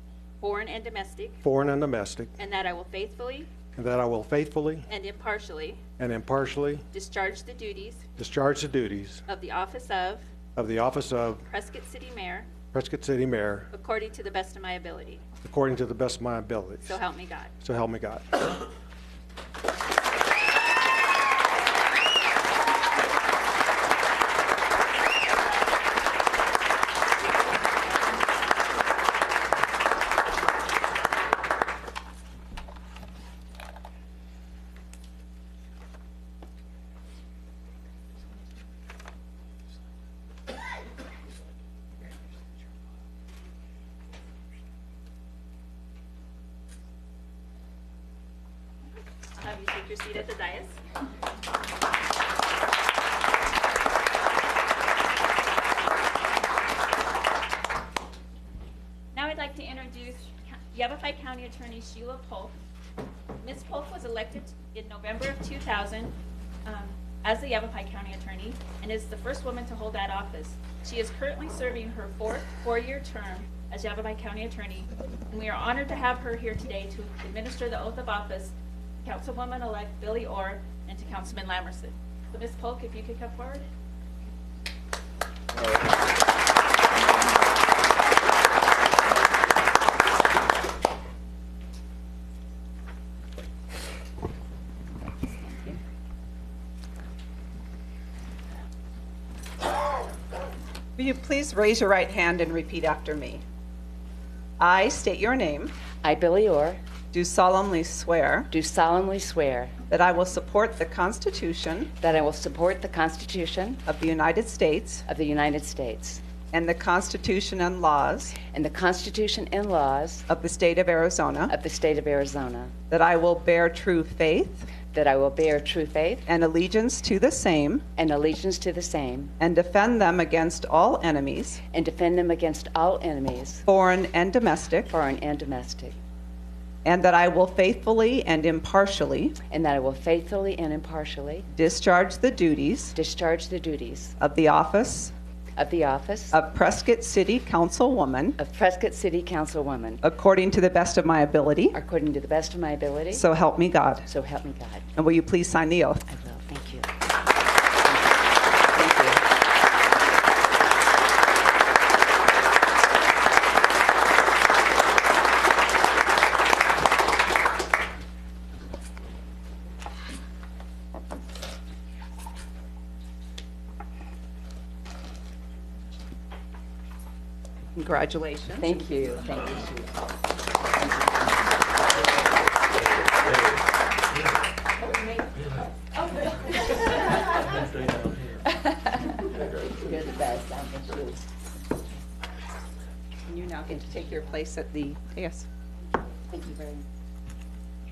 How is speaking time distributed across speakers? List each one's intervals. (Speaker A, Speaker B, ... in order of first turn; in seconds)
Speaker A: 0.4-1.4, 2.4-3.5, 4.9-5.8, 6.9-8.0, 9.3-10.2, 11.5-12.5, 13.7-15.2, 16.9-17.5, 49.4-50.8, 59.1-62.5, 63.4-66.1, 66.7-83.7
Speaker B: 1.4-2.3, 3.7-4.9, 6.0-6.8, 8.2-9.2, 10.6-11.4, 12.7-13.7, 15.4-17.0, 17.6-18.4
Speaker C: 101.0-103.4, 104.6-105.7, 107.1-108.5, 109.9-111.9, 113.8-115.0, 116.5-118.3, 120.3-121.5, 122.9-124.7, 126.2-127.8, 129.4-131.6, 133.7-134.9, 136.8-139.3, 141.5-142.9, 144.2-145.1, 146.3-148.4, 150.0-151.8, 153.1-154.1, 154.9-156.0, 177.8-178.7, 193.2-195.5
Speaker D: 106.0-106.8, 108.5-109.7, 112.0-113.8, 115.0-116.2, 118.4-120.3, 121.5-122.7, 124.9-126.2, 128.0-129.3, 131.7-133.7, 134.8-136.0, 139.5-141.5, 142.9-144.1, 145.6-146.4, 148.4-150.0, 151.7-153.2, 154.0-154.9, 156.1-156.9, 157.9-159.2, 178.6-180.0, 184.8-185.5, 186.3-187.7, 188.4-191.2, 196.3-196.8